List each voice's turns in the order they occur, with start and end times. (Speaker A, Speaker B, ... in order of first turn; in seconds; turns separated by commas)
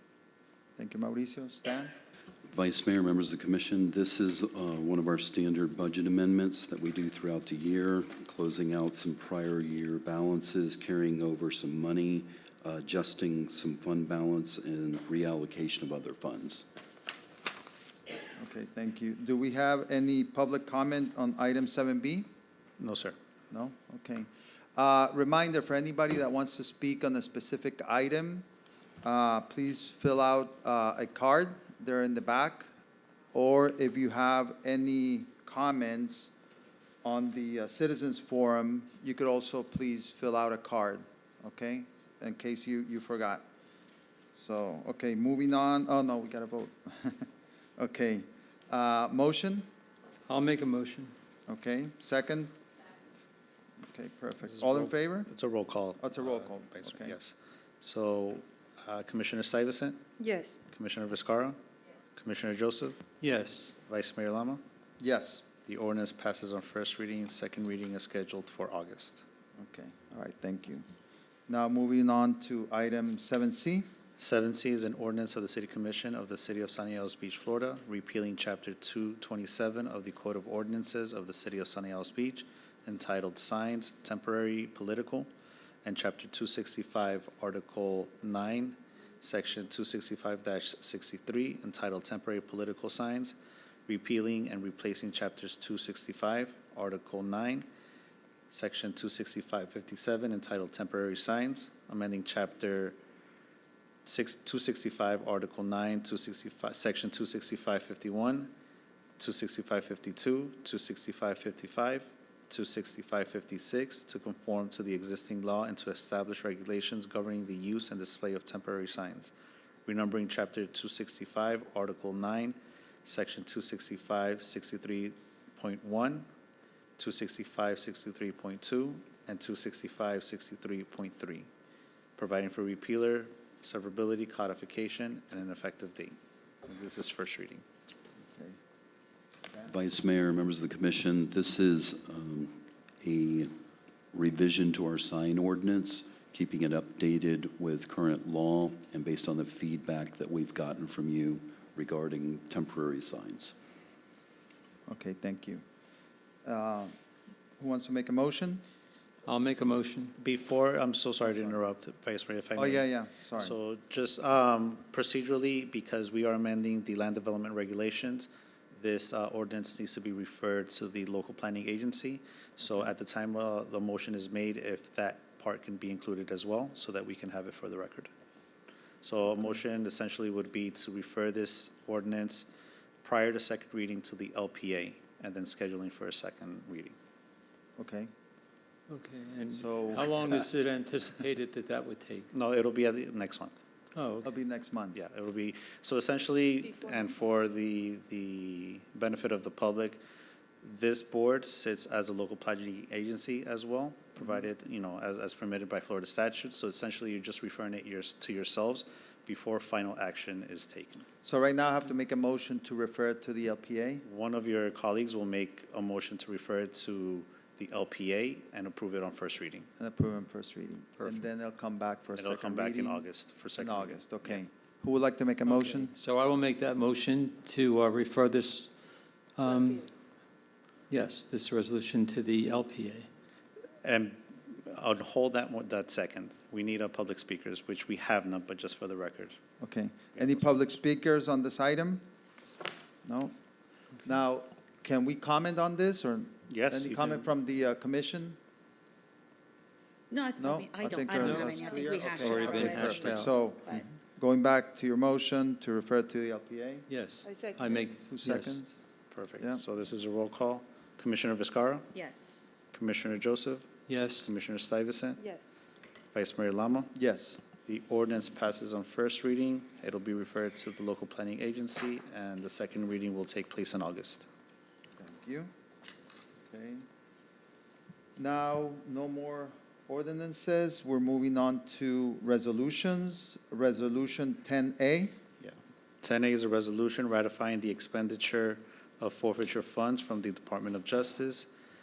Speaker A: 0.8-1.9, Speaker B: 2.5-16.6, Speaker A: 18.4-22.3, Speaker C: 22.8-23.1, Speaker A: 23.5-28.4, Speaker A: 29.0-32.7, Speaker A: 33.3-36.3, Speaker A: 37.0-43.4, Speaker A: 44.3-49.7, Speaker D: 50.3-51.1, Speaker A: 51.5-52.5, Speaker A: 53.8-55.3, Speaker C: 54.5-60.0, Speaker A: 56.0-57.1, Speaker E: 60.2-60.6, Speaker C: 60.7-61.6, Speaker C: 62.1-63.1, Speaker D: 63.2-63.7, Speaker C: 63.8-64.6, Speaker A: 65.0-65.4, Speaker C: 65.6-69.2, Speaker A: 69.6-70.8, Speaker A: 71.5-73.8, Speaker C: 74.2-85.3, Speaker C: 85.8-93.3, Speaker C: 93.9-97.7, Speaker C: 98.5-103.0, Speaker C: 104.0-108.5, Speaker C: 109.2-119.3, Speaker C: 119.8-126.3, Speaker C: 127.0-131.5, Speaker C: 132.2-137.6, Speaker B: 139.6-143.5, Speaker B: 144.1-153.5, Speaker A: 154.9-155.6, Speaker A: 156.4-156.9, Speaker A: 157.6-158.6, Speaker D: 159.2-160.1, Speaker C: 160.2-178.1, Speaker A: 161.3-161.6, Speaker A: 162.6-163.6, Speaker C: 179.0-182.5, Speaker C: 183.0-186.9, Speaker A: 187.8-188.1, Speaker D: 188.9-192.3, Speaker A: 189.5-190.1, Speaker C: 192.3-193.6, Speaker D: 193.9-194.3, Speaker A: 194.2-195.0, Speaker C: 194.9-200.0, Speaker C: 200.6-211.1, Speaker A: 211.2-214.0, Speaker C: 214.0-219.7, Speaker A: 219.8-225.9, Speaker C: 222.2-224.4, Speaker D: 225.6-228.7, Speaker D: 229.3-229.9, Speaker D: 230.9-233.1, Speaker C: 233.8-239.4, Speaker A: 239.6-242.0, Speaker C: 240.1-240.5, Speaker A: 243.0-243.3, Speaker A: 244.0-248.4, Speaker C: 246.5-247.3, Speaker E: 250.1-253.8, Speaker A: 250.4-256.9, Speaker D: 251.2-253.4, Speaker D: 256.9-258.6, Speaker E: 257.2-257.9, Speaker A: 258.0-258.8, Speaker C: 259.1-261.9, Speaker E: 261.9-262.4, Speaker C: 262.7-265.2, Speaker D: 263.9-264.3, Speaker E: 265.2-265.4, Speaker C: 266.1-266.9, Speaker A: 266.9-267.4, Speaker C: 267.6-274.2, Speaker A: 275.0-275.5, Speaker A: 276.5-276.8, Speaker A: 278.2-285.1, Speaker C: 285.4-291.5